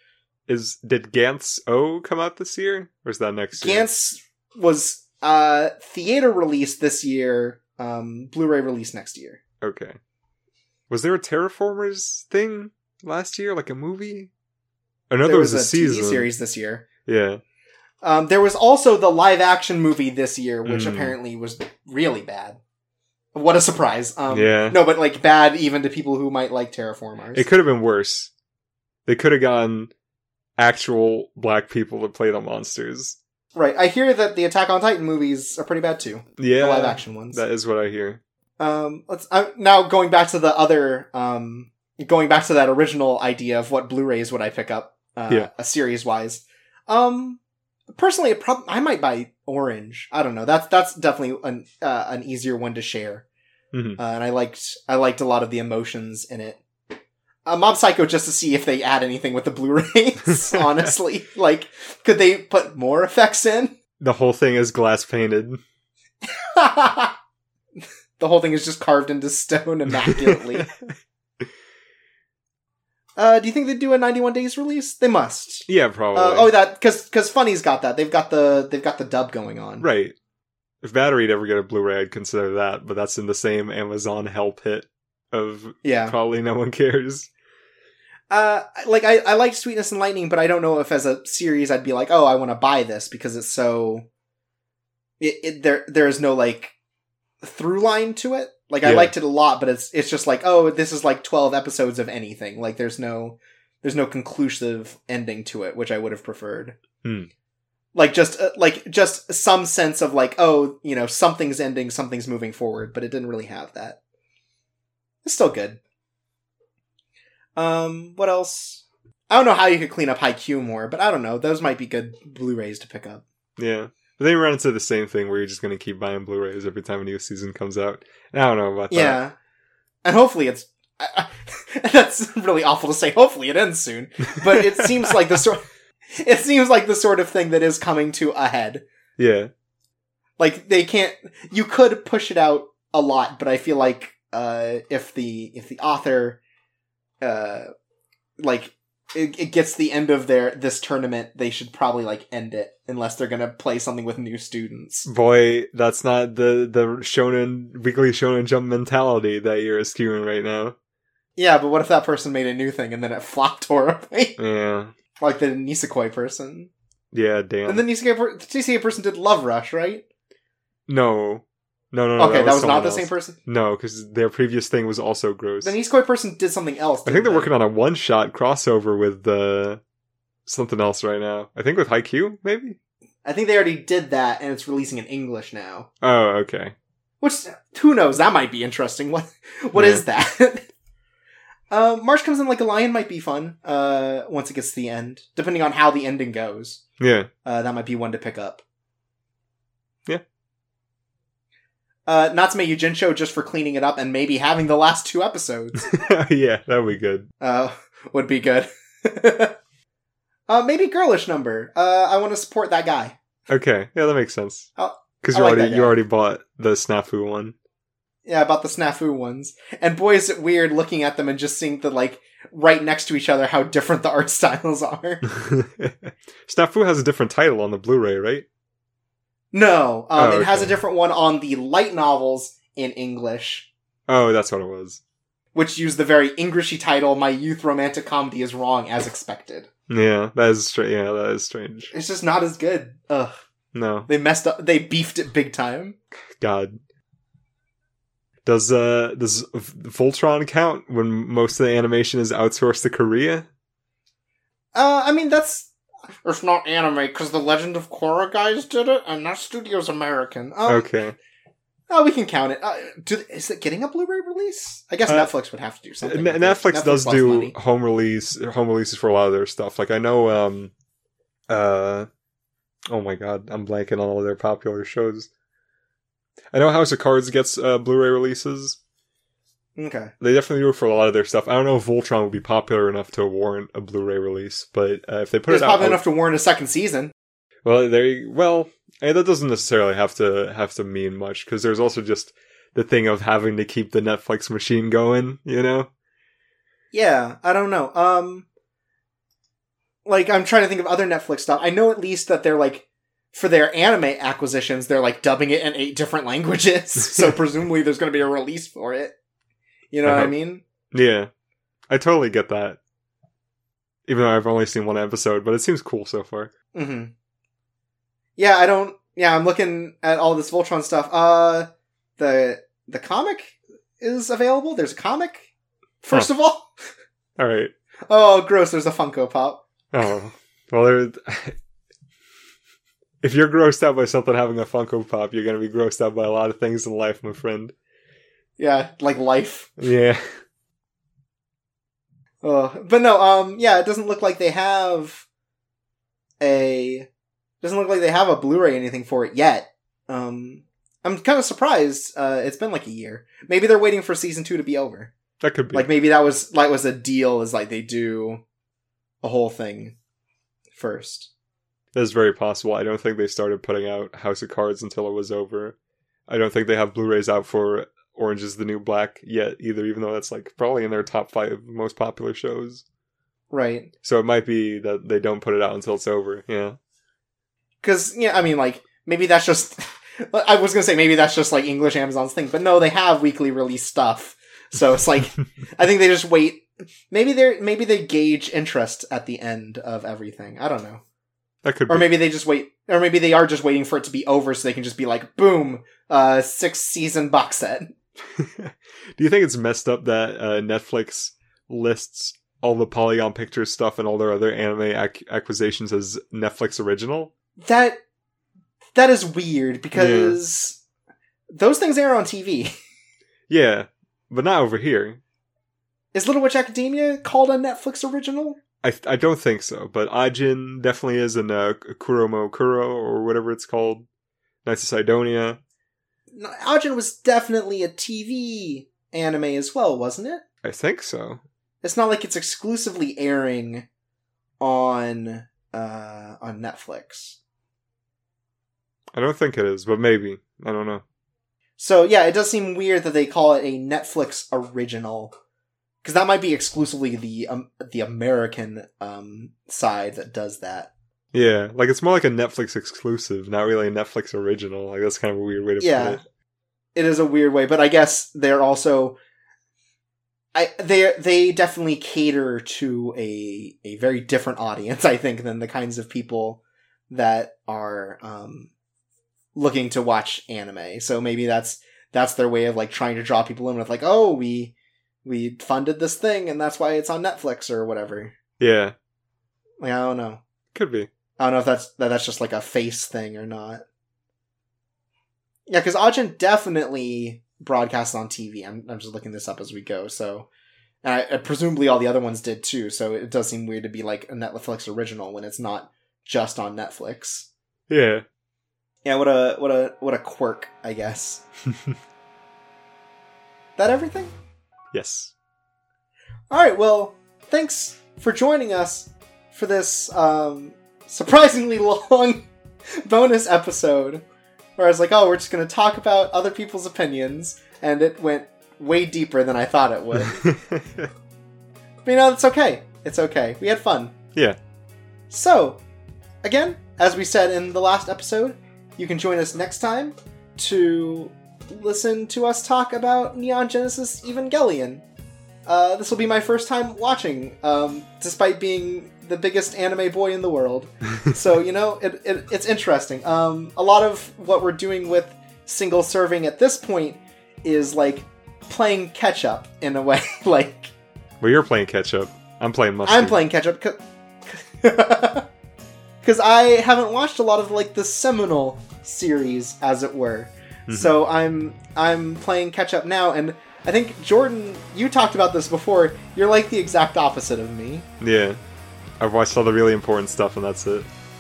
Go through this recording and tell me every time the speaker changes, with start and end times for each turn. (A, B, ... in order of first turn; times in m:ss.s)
0:00.5-0:03.9 A
0:03.6-0:09.4 B
0:09.6-0:10.0 A
0:10.9-0:14.3 A
0:15.1-0:16.3 A
0:15.2-0:16.9 B
0:17.1-0:17.4 A
0:18.0-0:22.6 B
0:20.6-0:21.2 A
0:23.4-0:27.5 B
0:24.3-0:24.8 A
0:27.3-0:28.3 A
0:29.1-0:29.9 A
0:30.6-0:33.2 A
0:33.6-0:37.4 B
0:36.4-0:38.2 A
0:38.6-0:47.4 B
0:47.9-0:53.2 B
0:53.7-0:54.0 A
0:54.0-0:56.6 B
0:57.5-1:03.8 B
1:00.4-1:00.9 A
1:04.0-1:05.6 A
1:06.3-1:07.1 B
1:08.2-1:10.7 B
1:10.0-1:11.0 A
1:13.2-1:19.9 B
1:15.7-1:16.5 A
1:19.8-1:20.2 A
1:20.8-1:27.3 A
1:25.8-1:26.2 B
1:28.3-1:34.1 B
1:35.2-1:36.7 B
1:37.4-1:46.8 B
1:38.8-1:39.1 A
1:47.0-1:47.3 A
1:48.0-1:54.0 B
1:55.2-1:55.8 B
1:57.6-2:03.2 B
2:03.6-2:09.2 A
2:08.9-2:09.4 B
2:10.0-2:15.6 B
2:14.4-2:14.9 A
2:16.2-2:18.8 B
2:19.2-2:19.5 A
2:20.4-2:26.4 B
2:27.2-2:27.7 B
2:28.4-2:35.1 B
2:35.1-2:40.8 A
2:41.4-2:44.4 B
2:44.4-2:44.9 A
2:45.2-2:46.7 B
2:47.1-2:47.8 A
2:47.7-2:50.0 B
2:50.9-2:55.7 A
2:52.2-2:53.4 B
2:55.6-2:57.5 B
2:57.0-2:59.8 A
3:00.5-3:02.8 A
3:03.2-3:05.9 B
3:06.0-3:06.7 A
3:07.2-3:10.7 B
3:09.8-3:10.0 A
3:11.7-3:16.8 B
3:17.0-3:17.3 A
3:17.4-3:18.6 B
3:22.1-3:25.9 B
3:25.9-3:27.3 A
3:27.4-3:29.6 B
3:30.5-3:33.2 B
3:33.5-3:34.7 A
3:34.8-3:36.0 B
3:35.2-3:37.6 A
3:38.2-3:45.2 B
3:45.3-3:48.5 A
3:49.5-3:53.7 B
3:50.2-3:50.8 A
3:54.1-3:55.0 A
3:55.5-3:59.7 B
3:59.9-4:01.9 A
4:01.9-4:03.4 B
4:03.7-4:04.1 A
4:04.1-4:06.0 B
4:06.4-4:06.8 A
4:08.4-4:13.5 A
4:14.7-4:15.7 B
4:16.2-4:20.9 B
4:20.7-4:21.2 A
4:21.9-4:27.6 B
4:26.0-4:30.7 A
4:31.5-4:32.1 A
4:32.9-4:35.3 A
4:36.5-4:38.8 A
4:39.8-4:40.1 B
4:40.2-4:46.0 A
4:45.5-4:47.1 B
4:47.6-4:55.9 A
4:56.9-4:58.5 B
5:00.1-5:09.2 B
5:09.9-5:10.6 B
5:10.0-5:10.3 A
5:10.9-5:11.3 A
5:11.9-5:12.8 A
5:14.1-5:16.5 A
5:16.7-5:17.1 B
5:18.4-5:25.5 B
5:26.0-5:26.7 B
5:27.4-5:27.7 A
5:28.1-5:29.6 B
5:29.9-5:31.6 A
5:33.2-5:37.7 A
5:38.6-5:39.7 B
5:39.8-5:40.2 A
5:42.4-5:45.2 B
5:46.4-5:47.1 B
5:47.6-5:55.1 B
5:55.4-5:55.9 A
5:55.7-5:58.4 B
5:59.2-6:00.0 B
6:00.8-6:01.3 B
6:01.9-6:05.8 A
6:06.3-6:12.8 A
6:13.5-6:13.9 B
6:14.0-6:16.8 A
6:17.8-6:31.0 B
6:31.6-6:32.1 A
6:31.9-6:37.9 B
6:38.4-6:47.3 A
6:47.6-6:48.0 B
6:49.0-6:50.8 B
6:49.9-6:50.4 A
6:51.5-6:52.7 B
6:53.5-6:55.2 A
6:56.1-6:58.6 B
6:58.8-7:04.1 A
7:04.6-7:05.6 A
7:06.3-7:10.4 B
7:10.6-7:11.4 A
7:11.8-7:13.9 B
7:14.6-7:17.4 B
7:19.1-7:21.0 A
7:21.8-7:25.4 B
7:26.0-7:30.9 B
7:31.3-7:36.2 A
7:35.8-7:36.2 B
7:37.0-7:39.2 B
7:40.5-7:48.7 B
7:49.6-7:58.4 B
7:58.6-7:59.0 A
7:59.8-8:00.4 B
8:00.7-8:01.1 A
8:01.4-8:03.8 B
8:05.7-8:10.5 B
8:11.0-8:17.5 B
8:17.9-8:18.2 A
8:19.0-8:21.4 B
8:23.8-8:24.3 B
8:24.9-8:25.3 A
8:26.5-8:32.5 B
8:33.0-8:34.2 B
8:34.8-8:40.4 B
8:40.1-8:41.1 A
8:42.0-8:44.1 B
8:45.3-8:45.8 B
8:46.4-8:55.0 B
8:55.7-9:10.9 B
9:11.4-9:13.4 A
9:13.0-9:15.5 B
9:16.2-9:28.1 B
9:20.9-9:21.1 A
9:28.2-9:28.6 A
9:29.2-9:31.1 A